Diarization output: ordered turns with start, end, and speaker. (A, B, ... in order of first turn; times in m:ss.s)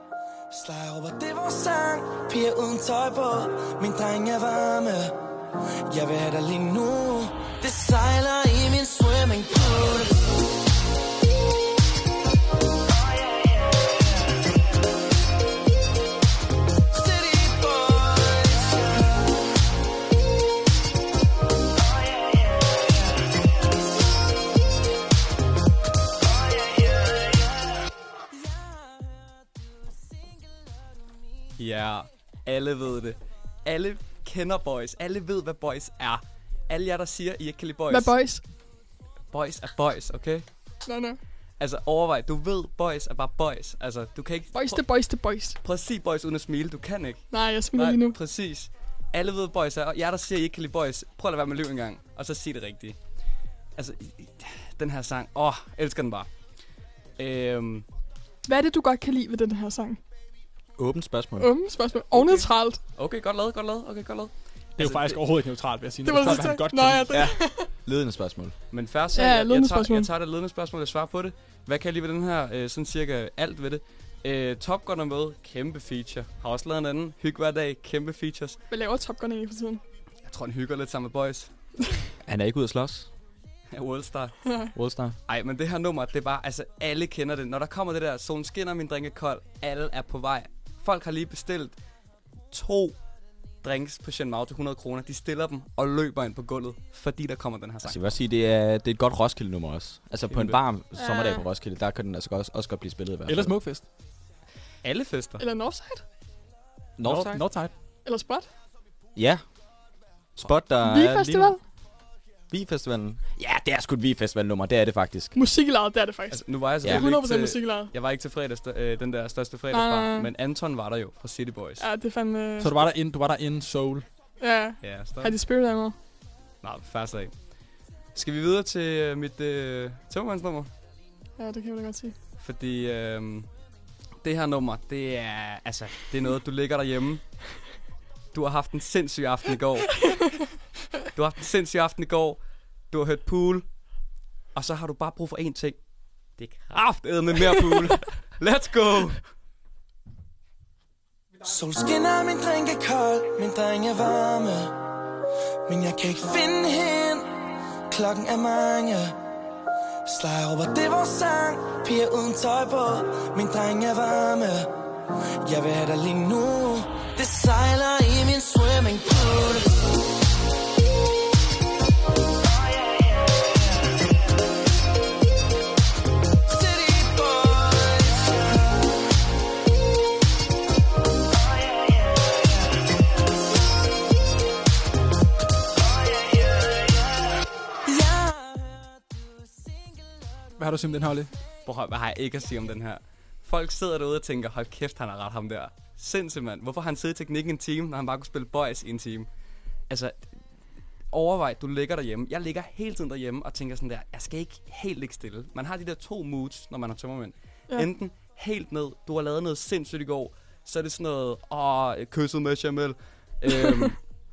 0:00.5-0:05.1 A
0:05.9-0:10.1 A
0:31.6-0:38.1 B
0:37.9-0:38.4 C
0:39.3-0:40.5 B
0:40.8-0:41.2 C
0:41.6-0:44.8 B
0:44.5-0:45.6 C
0:45.6-0:53.0 B
0:47.3-0:48.2 C
0:53.8-0:56.3 B
0:57.2-0:57.8 B
0:58.4-1:00.0 C
1:00.8-1:01.5 D
1:01.4-1:02.8 C
1:02.1-1:05.2 B
1:04.8-1:07.2 E
1:06.0-1:07.7 C
1:07.8-1:08.5 D
1:08.7-1:18.6 B
1:09.1-1:10.1 C
1:18.7-1:19.8 C
1:20.2-1:21.5 B
1:22.2-1:23.1 D
1:23.7-1:24.4 B
1:24.4-1:24.7 C
1:24.7-1:25.2 D
1:25.3-1:31.8 B
1:32.5-1:33.0 B
1:33.6-1:38.0 B
1:37.8-1:43.5 D
1:40.3-1:40.6 B
1:40.9-1:41.4 C
1:43.2-1:43.8 E
1:44.8-1:45.4 B
1:45.4-1:46.0 C
1:47.0-1:47.4 D
1:47.0-1:47.7 E
1:48.0-1:48.5 C
1:49.2-1:49.4 D
1:50.4-1:51.6 D
1:50.8-1:51.6 C
1:52.5-1:55.3 D
1:55.3-1:57.9 C
1:56.3-2:01.8 B
1:59.7-2:00.3 C
2:01.8-2:02.8 C
2:02.6-2:04.0 E
2:04.4-2:06.0 C
2:04.8-2:05.3 B
2:06.6-2:07.4 B
2:08.1-2:10.7 B
2:11.4-2:12.2 C
2:12.4-2:13.5 B
2:14.2-2:17.3 B
2:18.3-2:19.9 B
2:20.0-2:20.3 C
2:21.1-2:23.7 B
2:24.5-2:25.8 B
2:26.4-2:29.2 B
2:31.4-2:34.7 A
2:35.7-2:37.3 A
2:37.9-2:39.2 A
2:40.0-2:44.7 A
2:45.4-2:49.7 A
2:56.5-2:56.8 A
3:07.9-3:08.3 A
3:10.6-3:11.3 E
3:11.6-3:19.3 B
3:19.9-3:20.3 B
3:21.1-3:34.0 B
3:33.6-3:33.9 C